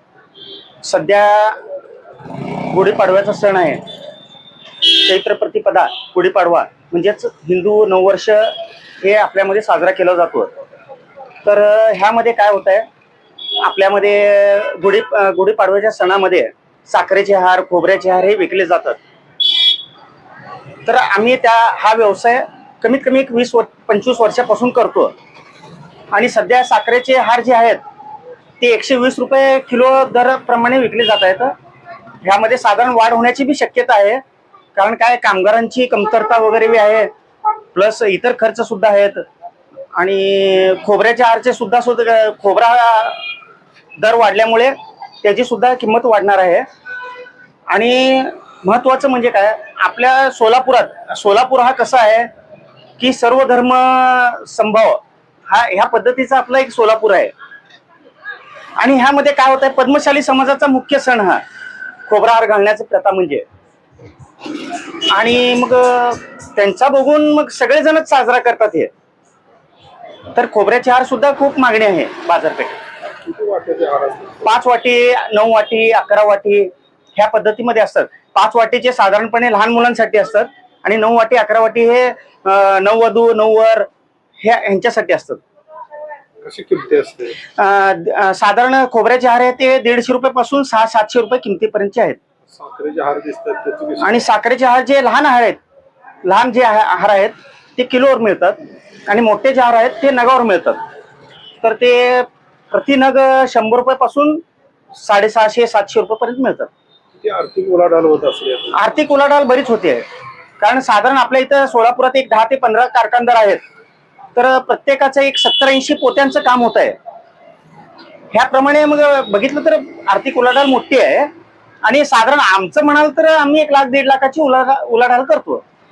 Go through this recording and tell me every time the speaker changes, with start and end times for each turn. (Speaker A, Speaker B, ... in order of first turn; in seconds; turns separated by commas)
Speaker A: 0.8-1.7, Speaker A: 2.3-3.8, Speaker A: 4.8-10.5, Speaker A: 11.4-12.9, Speaker A: 13.6-19.0, Speaker A: 20.9-25.1, Speaker A: 26.1-27.8, Speaker A: 28.6-31.5, Speaker A: 32.2-34.2, Speaker A: 34.7-37.1, Speaker A: 37.7-39.2, Speaker A: 39.9-43.2, Speaker A: 44.0-46.6, Speaker A: 47.7-52.3, Speaker A: 53.0-57.3, Speaker A: 58.8-61.4, Speaker A: 62.1-63.4, Speaker A: 64.6-68.9, Speaker A: 70.3-72.8, Speaker B: 73.2-74.5, Speaker A: 74.4-83.9, Speaker A: 84.4-85.4, Speaker B: 86.4-87.4, Speaker A: 87.5-92.2, Speaker B: 92.5-94.2, Speaker A: 94.0-95.6, Speaker A: 96.2-100.8, Speaker A: 101.6-104.4, Speaker A: 104.9-106.7, Speaker B: 107.2-108.8, Speaker A: 108.7-110.0, Speaker A: 110.6-113.6, Speaker A: 114.3-117.0, Speaker A: 118.3-121.3, Speaker A: 121.8-125.6